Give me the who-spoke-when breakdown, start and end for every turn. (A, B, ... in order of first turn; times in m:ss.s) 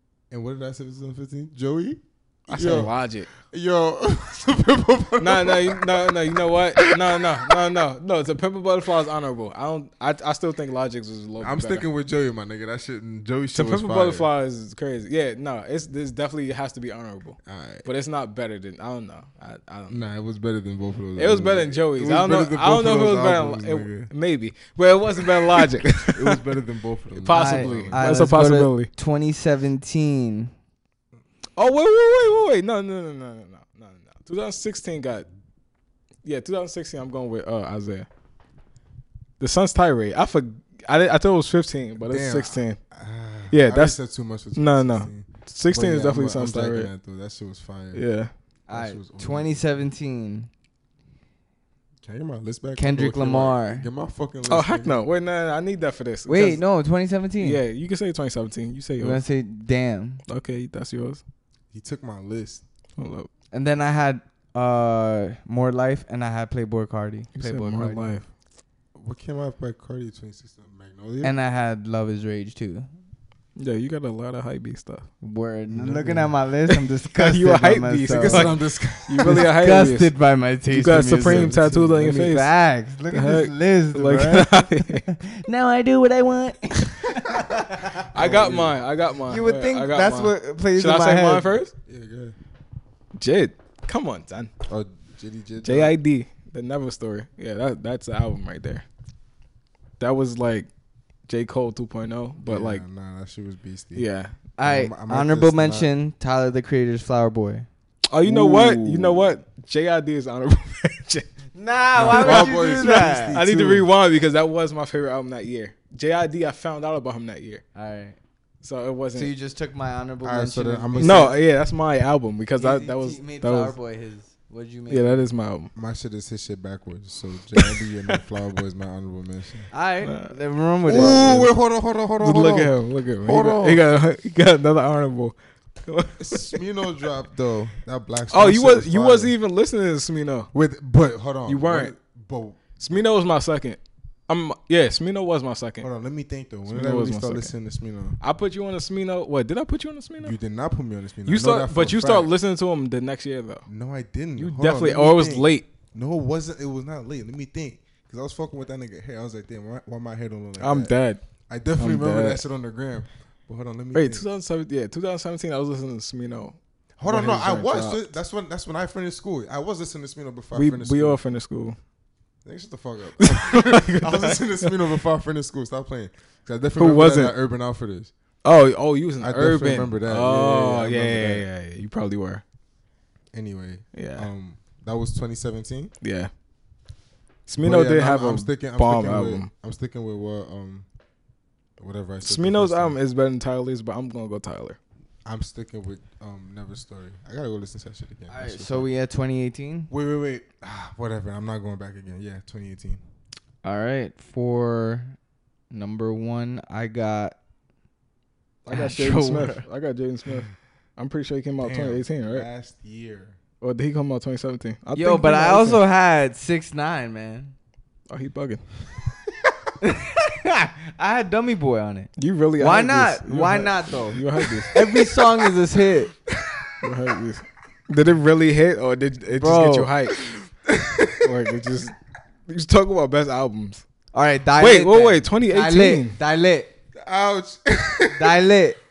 0:00.3-0:07.6 A
0:02.5-0:03.3 B
0:05.2-0:11.8 B
0:11.4-0:14.3 A
0:13.5-0:20.0 B
0:17.4-0:17.8 A
0:19.9-0:24.1 A
0:21.2-0:26.4 B
0:25.2-0:28.1 A
0:27.2-0:28.9 B
0:27.3-0:30.5 C
0:31.6-0:35.3 B
0:36.2-0:38.1 B
0:39.4-0:42.8 B
0:42.0-0:48.0 A
0:43.5-0:44.0 B
0:44.5-0:46.9 B
0:47.9-0:48.3 B
0:48.7-0:50.5 C
0:48.7-0:49.6 A
0:52.0-0:55.0 A
0:52.8-0:53.9 C
0:54.5-0:56.6 B
0:56.3-0:57.6 C
0:57.4-0:59.2 B
0:59.0-1:00.2 C
1:00.3-1:01.2 B
1:01.7-1:02.6 A
1:03.0-1:03.3 B
1:03.5-1:08.1 C
1:07.3-1:08.3 B
1:08.9-1:11.3 A
1:11.2-1:12.9 C
1:13.6-1:15.1 B
1:15.2-1:18.5 C
1:15.7-1:16.3 A
1:16.7-1:20.1 B
1:18.1-1:19.5 A
1:19.2-1:28.0 C
1:20.7-1:22.5 B
1:21.2-1:22.3 A
1:23.1-1:25.1 B
1:28.1-1:31.7 B
1:28.1-1:28.8 A
1:29.3-1:31.5 C
1:31.8-1:32.3 A
1:33.2-1:34.5 B
1:34.7-1:35.9 A
1:35.6-1:38.8 B
1:40.0-1:40.7 B
1:41.3-1:42.8 B
1:42.4-1:44.1 A
1:43.9-1:44.3 B
1:44.6-1:47.7 C
1:44.6-1:45.9 A
1:48.1-1:51.3 B
1:48.3-1:49.2 A
1:51.5-1:53.4 C
1:51.9-1:53.9 A
1:52.0-1:57.6 B
1:57.7-1:58.2 C
1:58.6-1:59.3 B
1:59.1-2:01.3 C
2:00.2-2:01.4 A
2:01.0-2:03.8 B
2:02.6-2:05.2 C
2:04.9-2:05.7 B
2:05.7-2:09.7 A
2:07.6-2:08.2 B
2:09.7-2:11.5 C
2:10.0-2:10.4 B
2:10.9-2:13.8 A
2:10.9-2:11.4 B
2:12.2-2:16.6 B
2:16.2-2:19.3 A
2:18.3-2:20.5 B
2:20.5-2:23.0 A
2:21.4-2:21.9 B
2:22.8-2:25.9 B
2:25.8-2:28.2 A
2:26.7-2:27.5 B
2:28.2-2:30.4 B
2:30.2-2:32.3 A
2:31.2-2:33.6 B
2:33.7-2:40.9 A
2:34.4-2:35.6 B
2:40.6-2:41.2 B
2:41.5-2:44.2 A
2:41.8-2:42.4 B
2:43.9-2:48.0 B
2:47.0-2:51.2 A
2:50.5-2:51.8 B
2:52.4-2:58.1 A
2:53.2-2:54.7 B
2:56.8-2:57.3 B
2:58.4-3:02.4 B
2:59.2-3:01.5 A
3:03.3-3:05.9 A
3:03.9-3:04.3 B
3:06.0-3:06.3 B
3:07.5-3:09.5 B
3:07.6-3:10.8 A
3:11.8-3:13.0 A
3:12.2-3:14.8 B
3:15.2-3:18.9 A
3:18.3-3:19.9 C
3:19.9-3:23.0 A
3:23.6-3:25.2 C
3:25.7-3:27.3 C
3:28.6-3:32.5 B
3:28.7-3:29.6 C
3:31.6-3:33.4 A
3:33.6-3:35.8 B
3:35.0-3:37.5 C
3:38.1-3:38.7 B
3:39.8-3:46.1 C
3:42.2-3:44.8 B
3:46.8-3:50.2 B
3:49.4-3:49.9 C
3:50.6-3:51.3 A
3:51.2-3:51.9 B
3:52.5-3:53.8 B
3:54.1-3:56.7 C
3:54.6-3:56.2 B
3:57.0-3:58.4 A
3:58.1-3:58.8 C